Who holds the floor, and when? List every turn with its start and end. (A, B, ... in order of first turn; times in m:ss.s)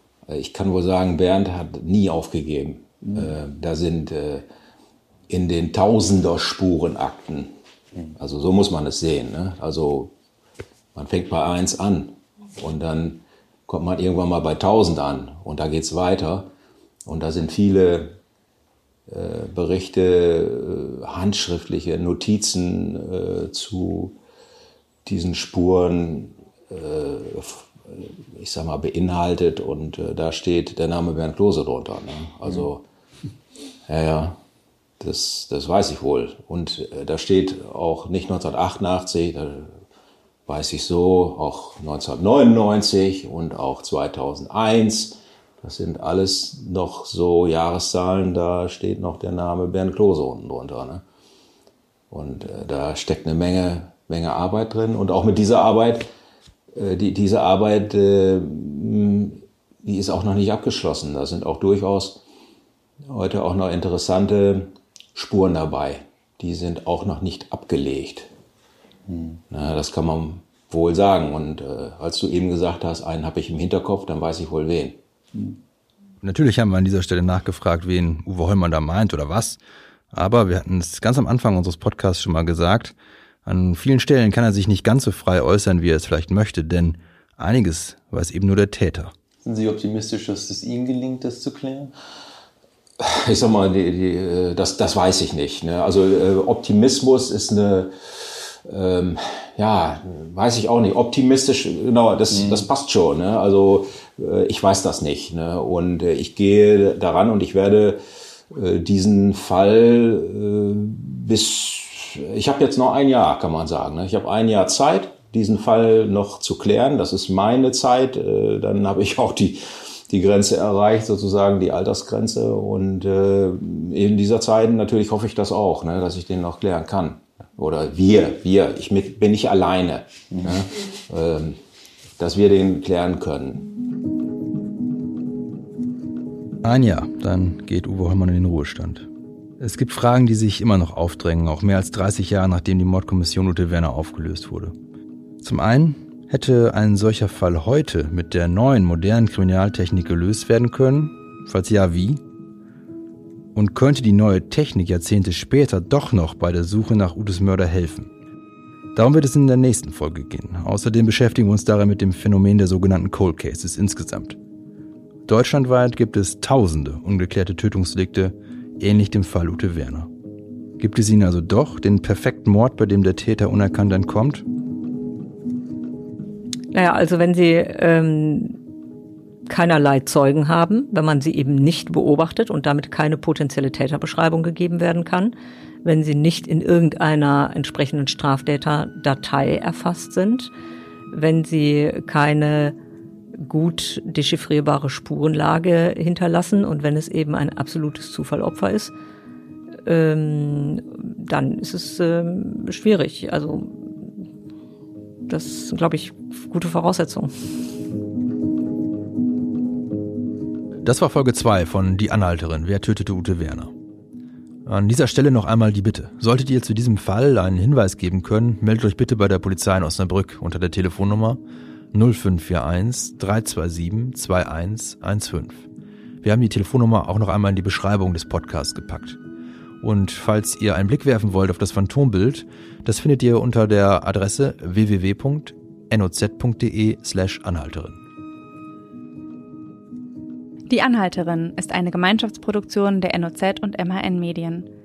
0:00.3-0:04.5 A
0:05.3-0:07.5 A
0:08.2-0:10.1 A
0:10.9-0:16.5 A
0:17.0-0:18.2 A
0:19.1-0:24.2 A
0:25.0-0:32.8 A
0:33.9-0:34.4 A
0:35.0-0:39.8 A
0:40.4-0:51.0 A
0:52.1-0:56.1 A
0:56.7-1:02.2 A
1:03.0-1:08.3 A
1:09.5-1:15.0 A
1:16.2-1:19.6 B
1:20.1-1:22.9 B
1:23.4-1:29.1 B
1:29.4-1:31.9 C
1:33.0-2:11.6 A
1:42.3-1:42.6 C
2:12.2-2:13.7 A
2:16.6-2:19.1 B
2:19.6-2:24.7 B
2:25.4-2:32.2 B
2:33.5-2:38.1 B
2:38.9-2:44.4 B
2:45.3-2:50.1 B
2:50.8-2:54.4 B
2:56.7-2:58.6 D
2:59.5-3:10.5 D
3:11.1-3:12.8 D
3:13.3-3:18.9 D
3:19.8-3:24.2 D
3:25.3-3:27.3 D
3:30.8-3:33.7 B
3:34.6-3:41.4 B
3:41.9-3:45.7 B
3:46.2-3:49.2 B
3:49.8-3:58.0 B
4:00.7-4:04.7 E